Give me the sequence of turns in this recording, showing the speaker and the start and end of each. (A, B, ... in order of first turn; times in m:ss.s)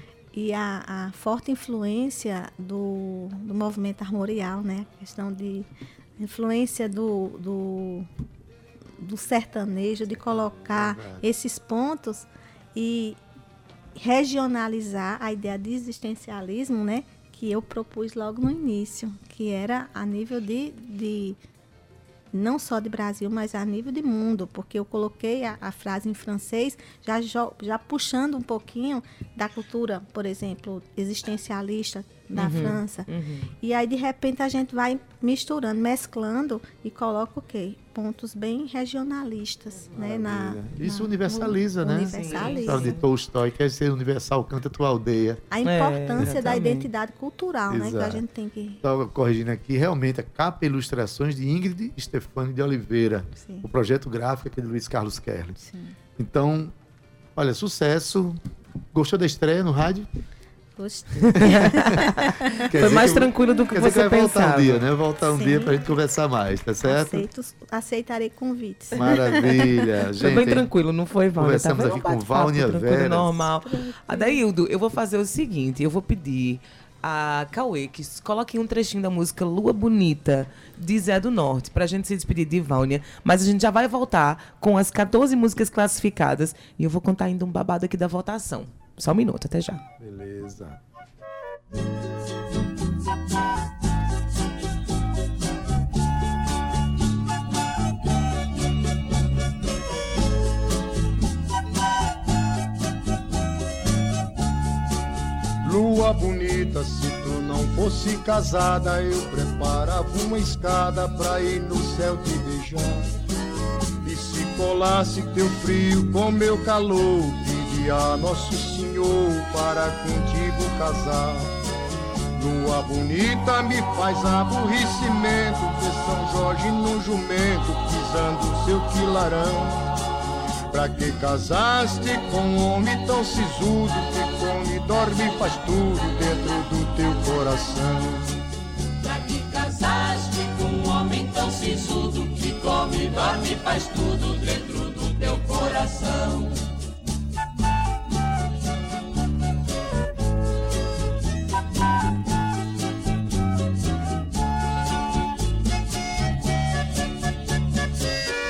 0:00.3-0:08.1 A
0:09.0-0:13.2 A
0:10.8-0:11.2 B
0:14.0-0:21.4 A
0:22.3-0:33.1 A
0:32.4-0:33.5 C
0:33.6-0:43.0 A
0:39.9-0:45.4 B
0:42.2-0:43.0 C
0:45.5-0:48.8 A
0:45.6-0:46.9 C
0:47.7-0:48.2 B
0:48.8-0:55.6 B
0:53.4-0:53.7 A
0:55.6-0:56.0 A
0:56.2-0:56.7 B
0:57.4-0:58.4 B
0:58.9-1:00.1 B
1:00.8-1:02.6 A
1:01.3-1:04.8 C
1:01.4-1:07.3 B
1:05.2-1:05.8 A
1:06.8-1:09.8 A
1:09.0-1:10.7 B
1:10.2-1:29.8 C
1:11.4-1:13.5 B
1:13.6-1:14.4 A
1:30.0-1:30.8 B
1:45.6-1:53.1 D
1:54.0-2:01.5 D
2:02.4-2:09.8 D
2:10.7-2:18.3 D
2:19.0-2:26.6 E